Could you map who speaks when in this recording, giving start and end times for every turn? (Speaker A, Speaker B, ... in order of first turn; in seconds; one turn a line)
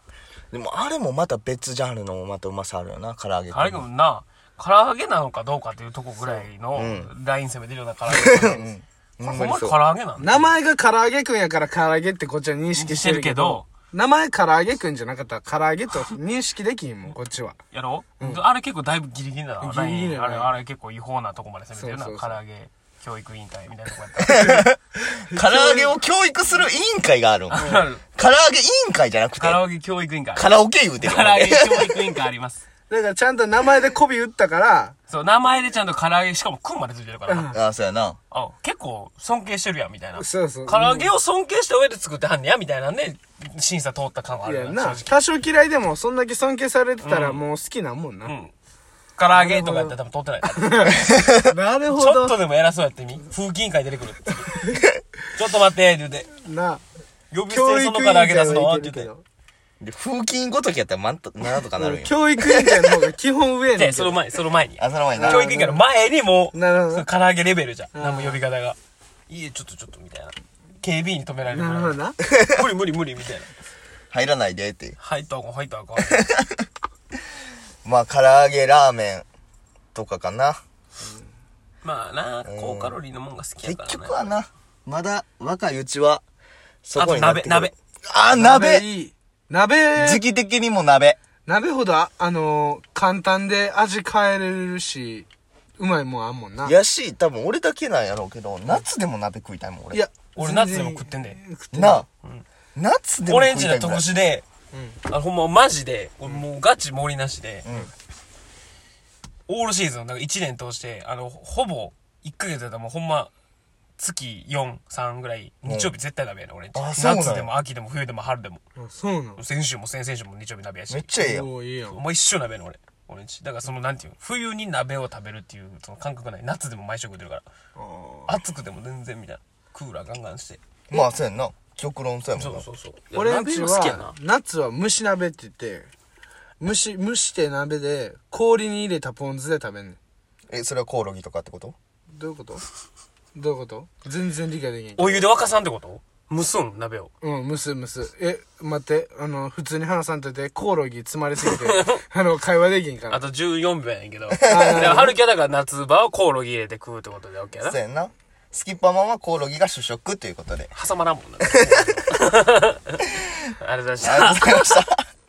Speaker A: 0.5-3.8
Speaker B: 3.5-8.7
Speaker A: 6.7-7.1
Speaker A: 8.1-9.8
Speaker B: 9.2-10.5
Speaker C: 10.2-17.6
Speaker B: 12.7-13.7
Speaker B: 17.7-24.6
Speaker C: 19.6-20.5
Speaker C: 21.7-22.4
Speaker A: 24.2-29.6
Speaker C: 25.3-25.9
Speaker B: 27.5-28.0
Speaker C: 27.6-27.9
Speaker B: 29.4-32.6
Speaker A: 30.4-32.1
Speaker C: 32.9-35.0
Speaker B: 35.1-37.5
Speaker C: 37.3-37.5
Speaker A: 37.5-38.2
Speaker B: 38.3-45.1
Speaker C: 40.1-41.1
Speaker C: 44.4-48.3
Speaker B: 47.0-47.4
Speaker B: 48.2-48.5
Speaker B: 49.2-51.2
Speaker C: 49.3-50.0
Speaker C: 50.5-52.4
Speaker B: 51.9-54.6
Speaker C: 54.5-54.8
Speaker B: 55.3-56.3
Speaker C: 56.4-56.8
Speaker B: 57.3-59.1
Speaker C: 57.5-59.2
Speaker A: 59.8-62.9
Speaker C: 61.7-64.2
Speaker B: 63.7-68.8
Speaker A: 64.8-65.4
Speaker C: 65.2-65.8
Speaker C: 66.5-67.0
Speaker C: 67.9-68.4
Speaker B: 69.3-73.5
Speaker C: 71.5-72.2
Speaker A: 74.1-75.0
Speaker B: 75.0-76.3
Speaker A: 76.0-76.6
Speaker A: 77.8-79.2
Speaker A: 79.9-80.6
Speaker C: 81.0-81.3
Speaker B: 81.8-84.3
Speaker A: 82.5-83.0
Speaker A: 83.6-86.2
Speaker A: 86.8-88.8
Speaker B: 86.9-87.7
Speaker C: 88.3-90.2
Speaker A: 90.0-91.2
Speaker C: 91.5-96.7
Speaker A: 96.6-100.0
Speaker C: 99.9-102.0
Speaker B: 100.3-101.4
Speaker A: 101.7-102.0
Speaker A: 102.7-104.0
Speaker B: 103.2-104.4
Speaker C: 104.7-105.0
Speaker B: 105.0-107.7
Speaker A: 107.6-107.9
Speaker B: 109.5-113.3
Speaker B: 114.0-118.6
Speaker A: 115.7-115.9
Speaker A: 116.7-117.5
Speaker C: 118.8-119.4
Speaker B: 119.4-121.1
Speaker A: 120.9-121.5
Speaker C: 121.2-122.0
Speaker B: 121.9-127.4
Speaker C: 127.8-128.4
Speaker B: 128.3-130.6
Speaker A: 130.9-132.7
Speaker B: 132.3-134.1
Speaker C: 133.1-135.9
Speaker C: 136.6-140.0
Speaker A: 140.5-141.8
Speaker C: 142.1-142.6
Speaker C: 143.3-145.3
Speaker B: 145.0-147.1
Speaker C: 147.2-153.2
Speaker B: 151.5-152.0
Speaker B: 153.1-157.8
Speaker C: 154.4-155.2
Speaker A: 157.6-160.7
Speaker B: 160.7-164.8
Speaker A: 164.0-165.0